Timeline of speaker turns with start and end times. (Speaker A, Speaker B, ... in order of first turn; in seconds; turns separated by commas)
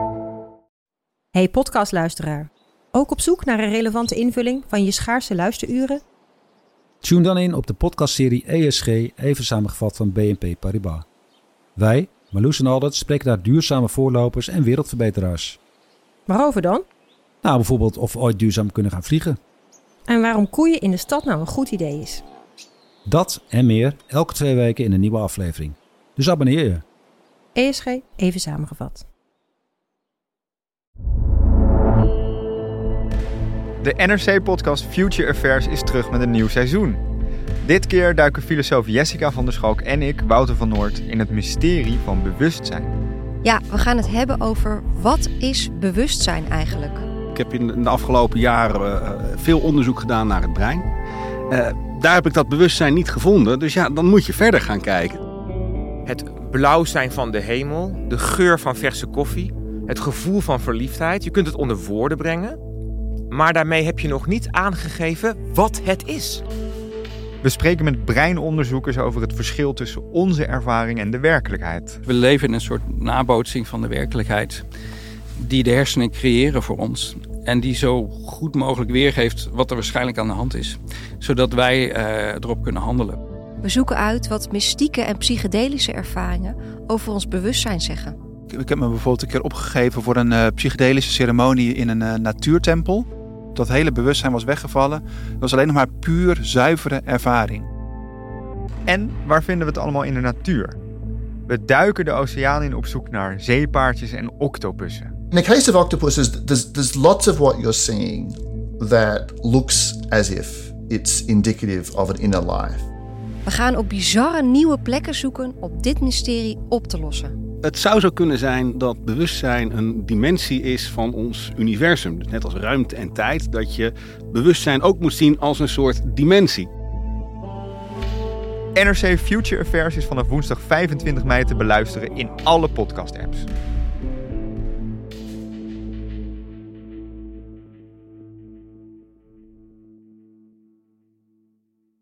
Speaker A: 1.3-6.0, Speaker B: 7.0-11.1, Speaker B: 11.8-15.6, Speaker A: 16.3-16.9, Speaker B: 17.4-19.4, Speaker A: 20.1-22.2, Speaker B: 23.1-26.8, Speaker A: 27.6-29.1, Speaker C: 33.8-37.0, Speaker C: 37.6-42.9, Speaker D: 43.4-47.1, Speaker E: 47.4-50.9, Speaker E: 51.5-55.2, Speaker F: 56.0-62.6, Speaker F: 63.3-66.4, Speaker C: 67.4-72.0, Speaker G: 72.1-74.6, Speaker G: 75.4-83.2, Speaker D: 83.6-88.2, Speaker H: 88.5-97.7, Speaker C: 98.9-100.8, Speaker C: 101.5-105.1, Speaker I: 105.3-112.9, Speaker D: 113.5-117.4, Speaker E: 117.6-126.7, Speaker C: 128.8-133.5